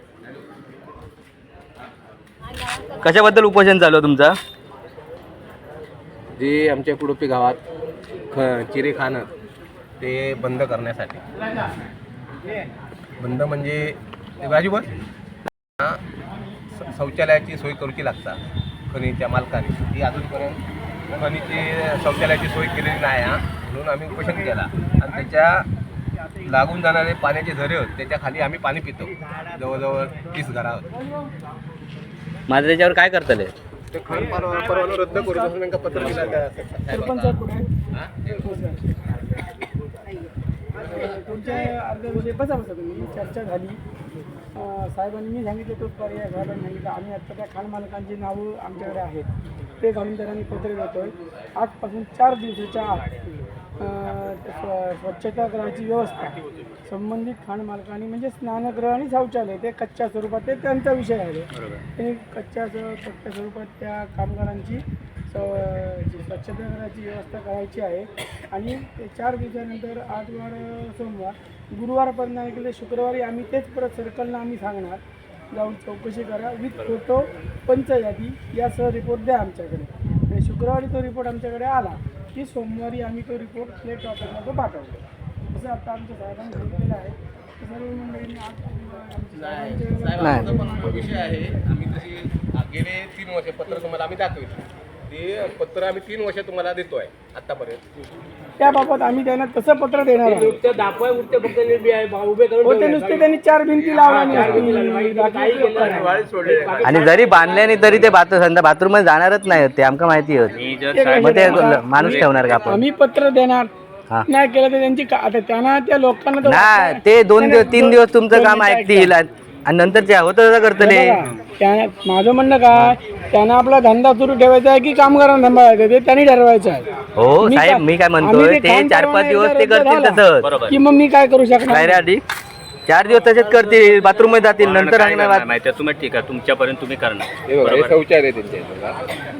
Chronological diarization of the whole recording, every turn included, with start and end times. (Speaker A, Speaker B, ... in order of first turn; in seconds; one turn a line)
Speaker A: 2.8-4.4
Speaker B: 6.4-7.6
Speaker B: 8.3-9.3
Speaker B: 10.0-11.2
Speaker B: 13.2-14.9
Speaker B: 16.7-25.7
Speaker B: 26.4-30.9
Speaker A: 32.5-33.5
Speaker B: 33.9-37.3
Speaker C: 35.1-35.5
Speaker C: 36.9-37.7
Speaker B: 37.9-38.3
Speaker C: 38.4-38.8
Speaker C: 40.8-43.8
Speaker C: 44.5-49.3
Speaker C: 49.8-75.0
Speaker C: 75.5-91.6
Speaker B: 89.4-97.8
Speaker A: 90.2-90.5
Speaker C: 98.6-100.5
Speaker D: 100.2-103.2
Speaker C: 102.6-106.1
Speaker D: 104.0-107.7
Speaker B: 104.3-104.8
Speaker B: 105.8-107.1
Speaker A: 106.8-112.8
Speaker E: 110.5-112.4
Speaker C: 110.9-113.7
Speaker C: 114.3-119.1
Speaker A: 116.4-121.2
Speaker C: 120.8-126.9
Speaker A: 127.2-130.5
Speaker C: 127.4-132.0
Speaker E: 130.4-130.7
Speaker A: 131.7-132.2
Speaker A: 132.9-135.5
Speaker E: 133.6-138.0
Speaker B: 137.4-139.0